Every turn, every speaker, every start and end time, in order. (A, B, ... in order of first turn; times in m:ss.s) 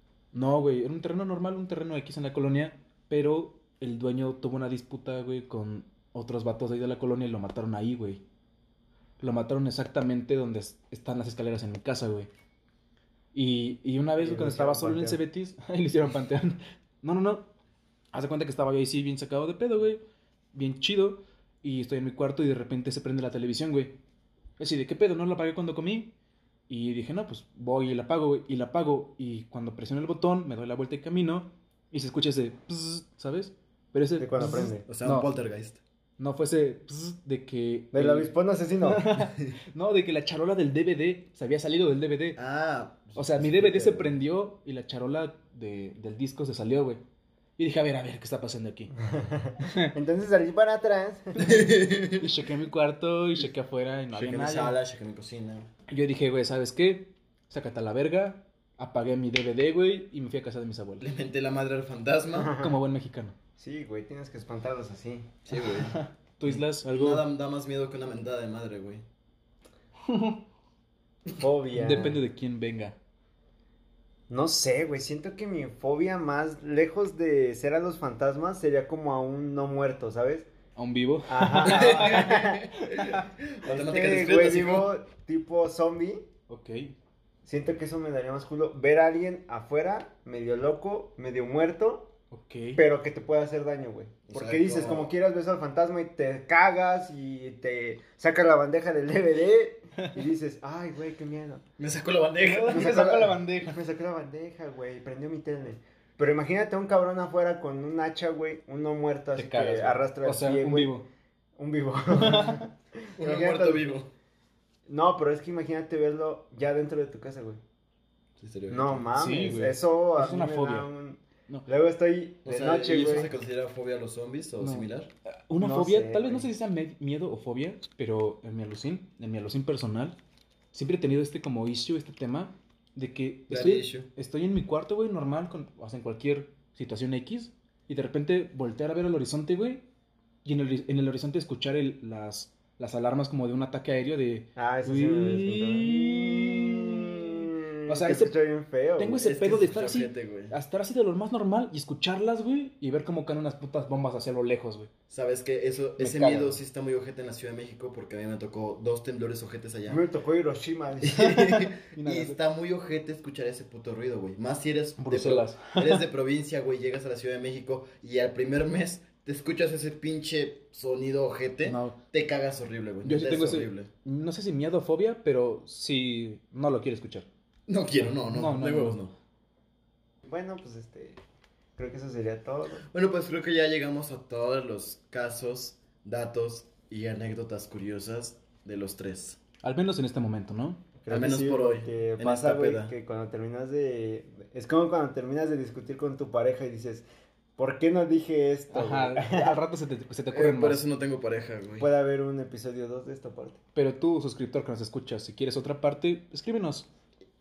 0:00.3-0:08.2 A
0:09.2-0:12.3 A
0:13.3-0:17.5 A
0:14.2-0:15.2 B
0:18.1-0:20.0 A
0:20.5-0:24.0 A
0:24.6-0:26.1 A
0:26.7-0:35.3 A
0:34.2-0:34.9 B
0:34.8-0:35.8 C
0:36.2-0:42.4 A
0:37.9-0:39.1 B
0:42.4-0:44.2 C
0:43.2-0:47.0 A
0:47.6-0:48.9 A
0:49.0-0:51.6 B
0:49.6-0:49.9 A
0:51.4-0:52.3 C
0:52.2-0:54.7 A
0:54.1-0:55.7 C
0:55.9-1:01.0 A
1:01.0-1:02.6 C
1:02.4-1:02.7 B
1:02.6-1:03.4 A
1:03.6-1:05.3 B
1:05.4-1:09.0 C
1:05.6-1:07.2 A
1:10.0-1:10.4 A
1:11.3-1:12.2 B
1:11.7-1:13.0 A
1:14.3-1:20.5 B
1:20.8-1:23.3 A
1:21.3-1:22.6 B
1:21.6-1:24.9 C
1:23.6-1:26.2 B
1:26.5-1:27.0 A
1:27.4-1:32.1 B
1:32.3-1:32.8 A
1:32.8-1:41.6 B
1:34.3-1:35.1 C
1:41.8-1:43.0 C
1:42.4-1:43.8 A
1:42.7-1:51.0 B
1:49.4-1:51.0 A
1:51.6-1:53.9 B
1:52.1-1:52.7 A
1:53.2-1:54.1 C
1:54.9-1:57.6 B
1:58.4-1:59.1 C
1:58.7-2:03.3 B
1:59.1-2:00.9 A
2:02.4-2:05.1 C
2:04.6-2:10.2 A
2:05.6-2:06.5 B
2:10.7-2:19.9 A
2:13.5-2:14.1 C
2:20.4-2:28.3 A
2:24.6-2:29.3 B
2:29.0-2:34.9 A
2:29.1-2:30.6 C
2:35.1-2:40.0 C
2:36.0-2:36.6 A
2:39.9-2:41.3 B
2:41.0-2:53.9 C
2:41.2-2:42.4 A
2:45.0-2:46.0 A
2:51.6-2:52.0 A
2:53.0-2:57.3 A
2:57.7-2:59.1 C
2:58.0-2:59.0 A
3:00.2-3:01.2 B
3:01.8-3:02.8 B
3:02.9-3:09.4 C
3:09.6-3:10.9 A
3:11.0-3:17.0 B
3:11.1-3:13.0 C
3:17.6-3:19.6 B
3:18.7-3:20.8 A
3:20.3-3:21.9 C
3:21.8-3:23.6 B
3:23.7-3:26.9 A